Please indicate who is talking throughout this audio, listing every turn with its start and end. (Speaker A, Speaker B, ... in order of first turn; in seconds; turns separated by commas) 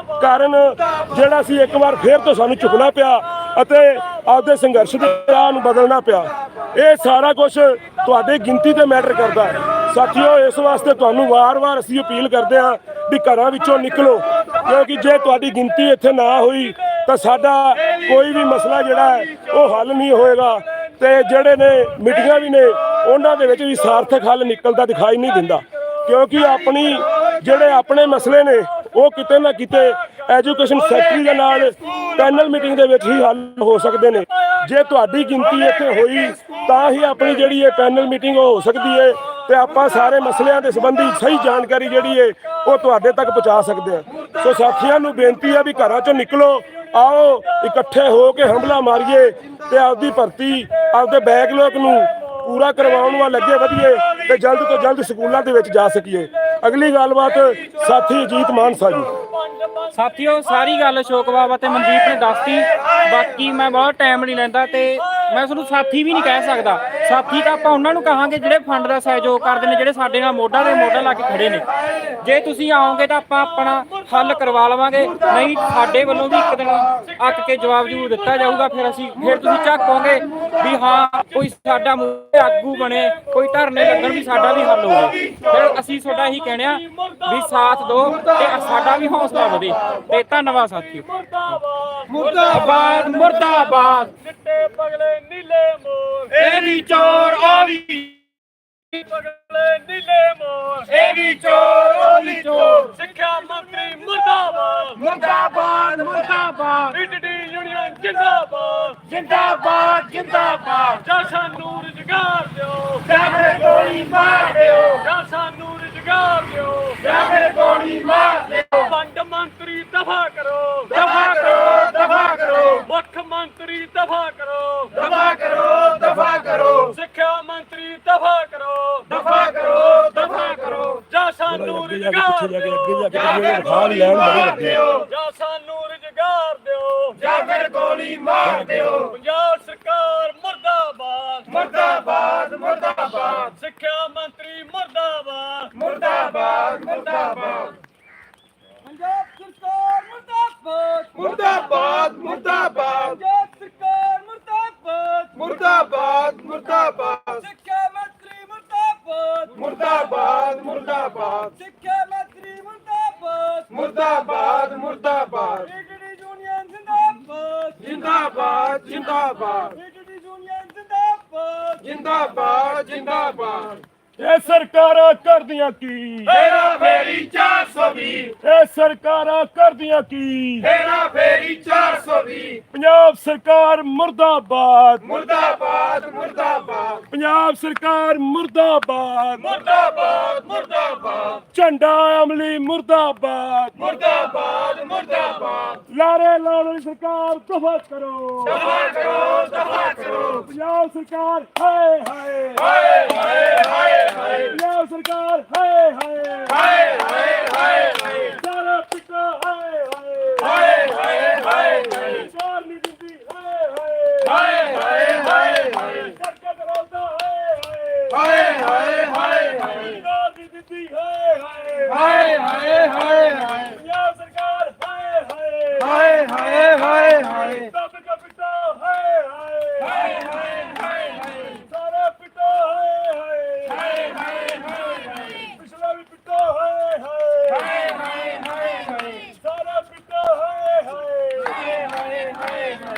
Speaker A: 0.2-59.1, Speaker B: 0.8-1.2, Speaker B: 6.3-6.7, Speaker C: 22.1-22.6, Speaker B: 27.0-27.4, Speaker C: 30.9-31.5, Speaker B: 36.3-36.6, Speaker C: 39.5-41.9, Speaker B: 44.1-44.4, Speaker B: 49.2-50.0, Speaker C: 51.1-51.7, Speaker C: 52.8-54.9, Speaker C: 58.0-58.7, Speaker D: 59.9-71.7, Speaker B: 71.8-72.1, Speaker D: 72.2-91.0, Speaker B: 75.7-76.4, Speaker B: 79.3-80.5, Speaker C: 86.8-87.2, Speaker C: 88.0-88.4, Speaker B: 88.1-90.1, Speaker C: 91.0-93.2, Speaker B: 92.1-94.1, Speaker C: 94.2-96.4, Speaker B: 96.4-98.2, Speaker C: 98.9-100.9, Speaker B: 100.9-103.0, Speaker C: 102.8-105.0, Speaker B: 104.9-107.0, Speaker C: 106.9-109.2, Speaker B: 109.2-111.0, Speaker C: 111.0-113.5, Speaker B: 113.1-115.0, Speaker C: 115.0-117.0, Speaker B: 117.0-118.7, Speaker C: 118.7-121.9, Speaker B: 120.9-122.8, Speaker C: 122.8-125.1, Speaker B: 125.0-126.9, Speaker C: 126.8-129.1, Speaker B: 129.1-131.0, Speaker C: 131.0-137.2, Speaker A: 131.4-134.9, Speaker B: 134.1-135.1, Speaker B: 137.2-139.2, Speaker A: 138.4-139.0, Speaker C: 139.1-141.5, Speaker B: 141.5-143.5, Speaker C: 143.4-145.7, Speaker B: 145.7-147.8, Speaker E: 148.8-151.4, Speaker B: 151.2-153.2, Speaker E: 152.8-155.5, Speaker B: 155.3-157.4, Speaker E: 157.3-159.8, Speaker B: 159.5-161.5, Speaker E: 161.4-163.8, Speaker B: 163.7-165.7, Speaker E: 165.6-168.0, Speaker B: 167.8-169.8, Speaker E: 169.7-171.8, Speaker B: 171.8-173.8, Speaker A: 174.2-176.3, Speaker B: 176.3-178.3, Speaker A: 178.4-180.7, Speaker B: 180.6-182.6, Speaker A: 182.7-185.1, Speaker B: 185.0-187.0, Speaker A: 187.1-189.6, Speaker B: 189.6-191.4, Speaker A: 191.4-193.9, Speaker B: 193.8-195.8, Speaker A: 195.9-198.8, Speaker B: 198.7-200.4, Speaker A: 200.4-206.9, Speaker B: 206.7-207.8, Speaker A: 208.1-222.4, Speaker B: 214.4-215.4, Speaker B: 218.1-219.2, Speaker B: 221.9-223.7, Speaker A: 223.6-230.7, Speaker B: 225.8-227.6, Speaker A: 231.4-234.1, Speaker A: 234.7-237.8, Speaker B: 237.7-238.9, Speaker A: 239.2-241.7, Speaker B: 241.8-242.4